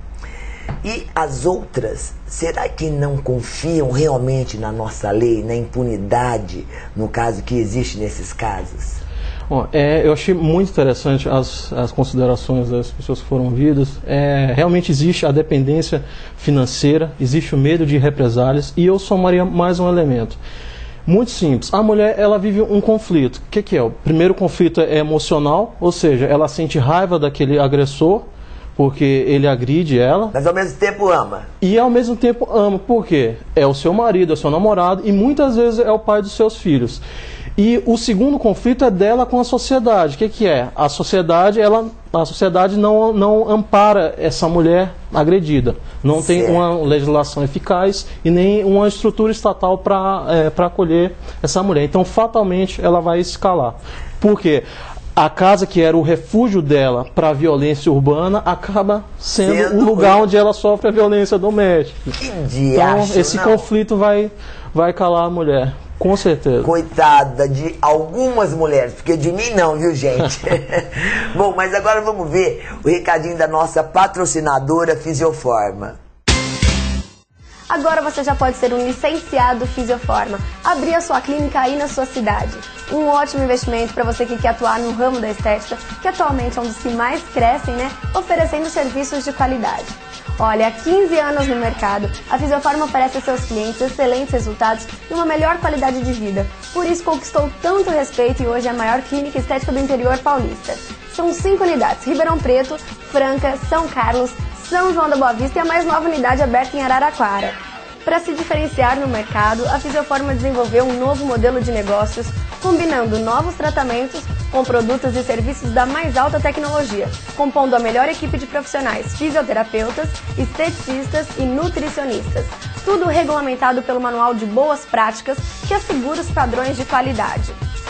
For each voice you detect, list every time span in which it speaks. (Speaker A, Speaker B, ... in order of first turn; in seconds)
Speaker A: 0.8-9.0, 30.3-31.5, 46.2-46.6, 59.4-60.2, 62.2-63.7, 66.6-76.0
Speaker B: 9.5-20.4, 21.1-28.2, 28.8-30.3, 31.6-37.0, 37.6-54.6, 55.1-62.0, 62.7-66.7
Speaker C: 77.7-127.6